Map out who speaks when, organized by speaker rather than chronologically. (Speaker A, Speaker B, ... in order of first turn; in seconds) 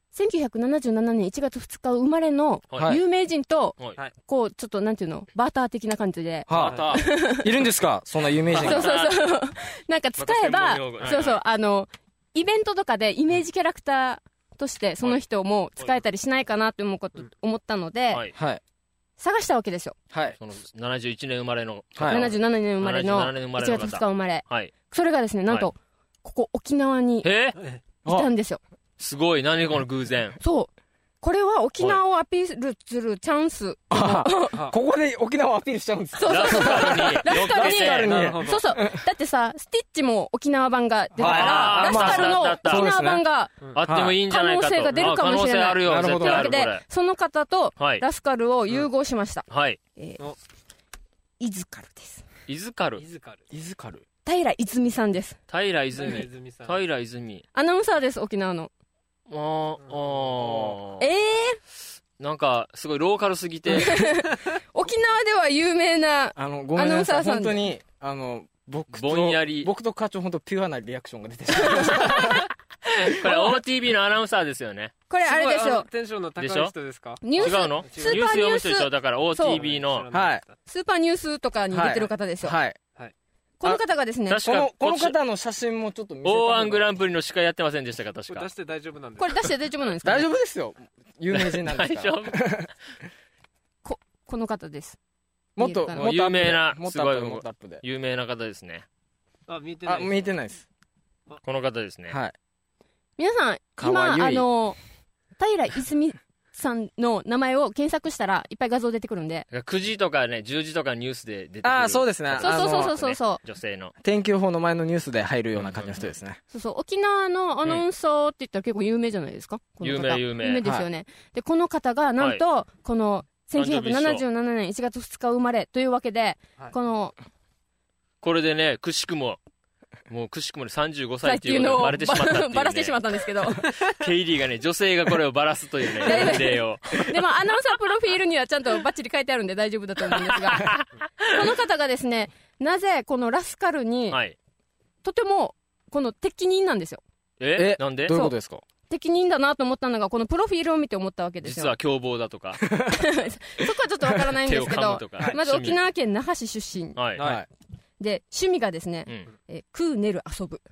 Speaker A: 0.1-7.5, 8.6-18.2, 19.2-19.9, 22.0-27.3, 28.1-28.6, 30.4-30.7, 31.2-34.6, 36.2-43.5, 44.3-49.4, 51.4-52.2, 54.2-55.4, 57.5-58.7, 61.0-61.6, 63.7-67.6, 71.6-72.4, 75.1-75.9, 77.2-79.6, 80.7-82.5, 83.6-84.4, 89.2-90.2, 93.8-95.0, 95.6-96.1, 103.2-104.8, 105.4-109.4, 112.4-113.4, 116.5-127.1, 131.2-133.7, 136.0-140.8, 141.3-144.2, 145.0-147.0, 148.1-148.3, 148.9-151.7, 152.9-157.0, 158.0-160.6
Speaker B: 6.5-8.9, 18.3-18.6, 20.1-20.4, 21.9-22.3, 33.9-39.0, 41.2-43.2, 43.8-44.2, 45.8-46.6, 53.5-54.0, 66.3-72.4, 80.1-80.4, 81.7-82.8, 84.4-86.8, 90.0-92.7, 95.5-97.8, 99.8-100.7, 102.1-102.3, 103.8-104.5, 111.6-112.9, 114.0-116.4, 147.6-148.6, 152.7-153.0, 157.2-157.5
Speaker C: 6.5-7.0, 8.5-9.2, 10.2-11.4, 20.4-24.7, 27.2-27.6, 29.0-30.4, 36.2-38.1, 41.2-42.9, 43.7-46.8, 47.8-48.0, 49.5-49.8, 52.5-53.0, 55.5-57.4, 59.3-61.0, 62.2-64.1, 68.9-69.7, 72.9-74.9, 76.4-76.8, 77.3-80.1, 84.3-85.2, 86.2-88.5, 91.3-92.5, 96.0-98.8, 101.4-102.2, 109.5-113.9, 115.6-116.1, 119.8-120.6, 123.5-124.2, 128.2-129.4, 130.1-133.0, 133.6-137.0, 140.5-140.9, 144.1-144.3, 147.4-148.2, 151.4-152.6, 154.4-155.8, 156.9-157.2
Speaker D: 38.0-38.6, 53.0-53.4, 55.9-56.8, 75.2-78.3, 79.4-80.5, 88.3-89.3, 99.5-100.3, 157.2-157.4